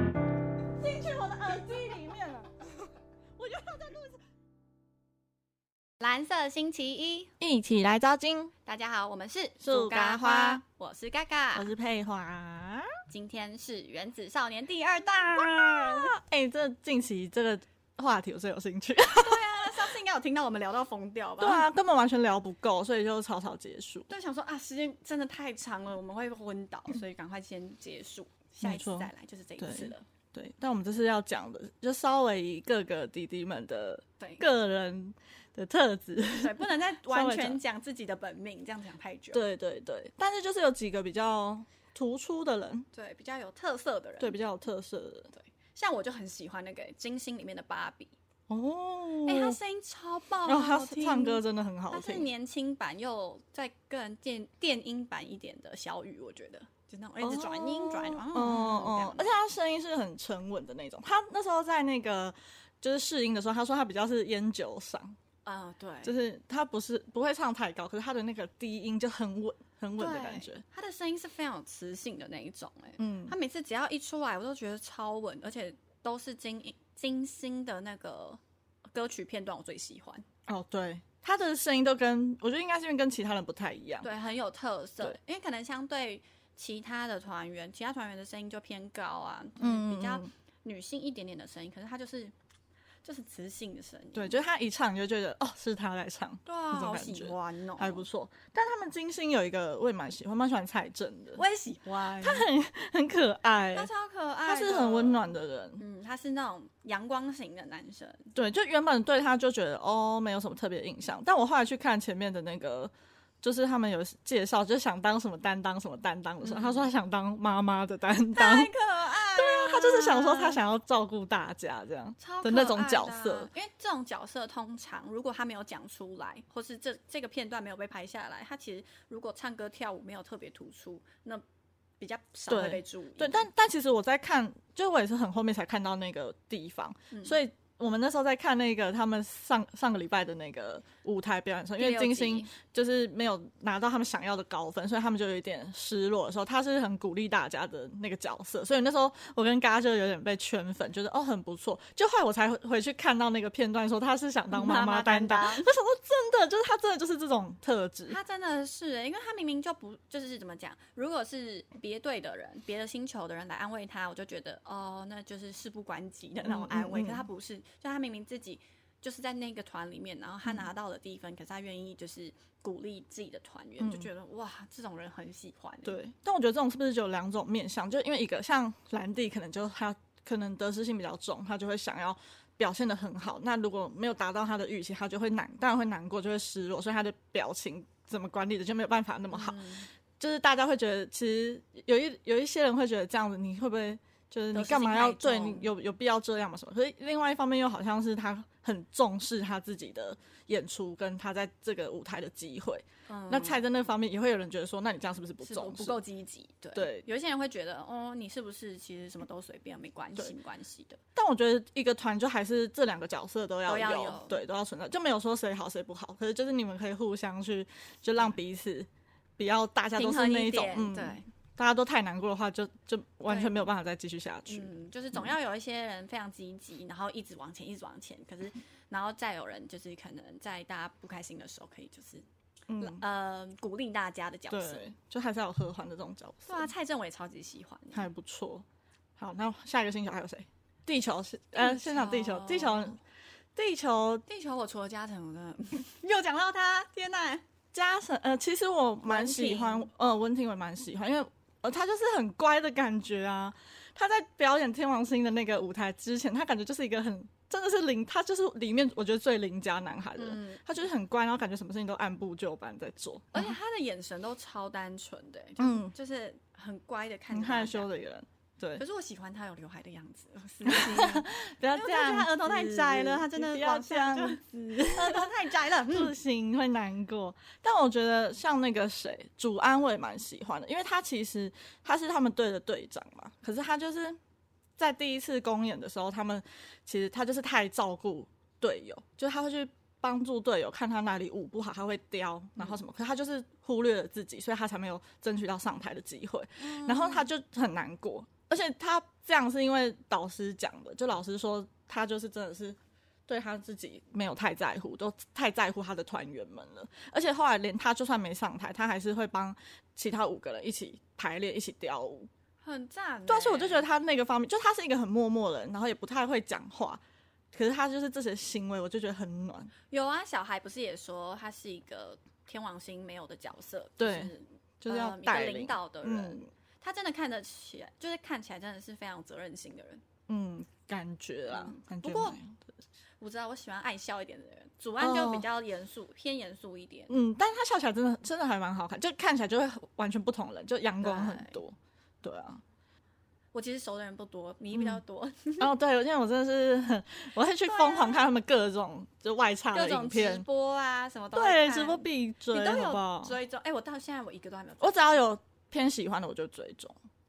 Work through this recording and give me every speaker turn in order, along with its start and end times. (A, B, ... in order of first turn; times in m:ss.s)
0:00.7-0:02.7 A
0:03.4-0:04.2 A
0:06.0-0:07.3 B
0:07.4-0:08.5 A
0:08.6-0:11.7 B
0:09.6-0:10.6 A
0:11.5-0:13.0 A
0:13.1-0:16.2 B
0:15.3-0:19.5 A
0:19.1-0:21.7 B
0:21.4-0:24.1 A
0:24.1-0:30.0 B
0:28.6-0:37.6 A
0:34.2-0:34.4 B
0:36.3-0:39.4 B
0:39.3-0:42.9 A
0:42.9-0:44.4 B
0:44.2-0:45.3 A
0:45.3-0:48.1 B
0:48.5-0:49.6 A
0:49.2-0:59.4 B
0:50.4-0:52.3 A
0:57.2-1:05.2 A
1:05.4-1:06.1 B
1:06.0-1:10.6 A
1:10.0-1:18.4 B
1:13.0-1:13.4 A
1:18.9-1:20.2 B
1:20.5-1:24.1 A
1:24.0-1:32.3 B
1:29.6-1:30.3 A
1:33.0-1:34.4 B
1:34.1-1:41.4 A
1:36.4-1:38.0 B
1:41.4-1:42.5 B
1:42.2-1:43.9 A
1:43.7-1:48.3 B
1:44.4-1:45.8 A
1:48.3-1:58.7 A
1:56.4-1:56.8 B
1:58.3-2:00.6 B
1:59.2-2:03.5 A
2:02.2-2:11.4 B
2:12.0-2:13.5 B
2:12.5-2:38.2 A
2:17.1-2:17.4 B
2:21.8-2:22.5 B
2:34.5-2:35.7 B
2:38.1-2:56.0 B
2:46.4-2:47.2 A
2:53.8-2:54.1 A
2:55.8-3:09.6 A
3:09.3-3:09.9 B
3:10.2-3:26.0 A
3:14.5-3:15.7 B
3:23.1-3:23.6 B
3:25.4-3:31.0 B
3:26.7-3:27.0 A
3:31.1-3:45.3 A
3:33.6-3:34.4 B
3:39.9-3:41.3 B
3:43.2-3:43.6 B
3:44.5-3:52.2 B
3:52.7-3:53.0 A
3:52.8-3:54.9 B
3:54.5-3:56.7 A
3:56.4-3:58.1 B
3:57.9-3:58.6 A
3:59.2-4:03.0 A
4:01.5-4:03.0 B
4:03.5-4:04.2 A
4:04.3-4:07.4 B
4:07.7-4:23.6 A
4:09.0-4:09.9 B
4:20.2-4:20.6 B
4:23.3-4:27.9 B
4:25.6-4:25.9 A
4:27.3-4:28.8 A
4:28.8-4:36.1 B
4:30.6-4:44.2 A
4:44.8-5:12.3 A
4:56.6-4:57.3 B
5:12.6-5:13.8 B
5:13.3-5:17.0 A
5:17.5-5:19.7 A
5:19.9-5:30.0 B
5:24.0-5:26.5 A
5:30.3-5:32.7 A
5:31.5-5:32.4 B
5:33.2-5:37.1 B
5:35.0-5:35.5 A
5:37.1-5:42.6 A
5:41.0-5:41.6 B
5:43.5-5:45.7 B
5:44.7-5:45.0 A
5:45.6-5:50.4 A
5:47.6-5:48.3 B
5:49.7-5:55.2 B
5:51.3-5:53.3 A
5:54.8-5:57.0 A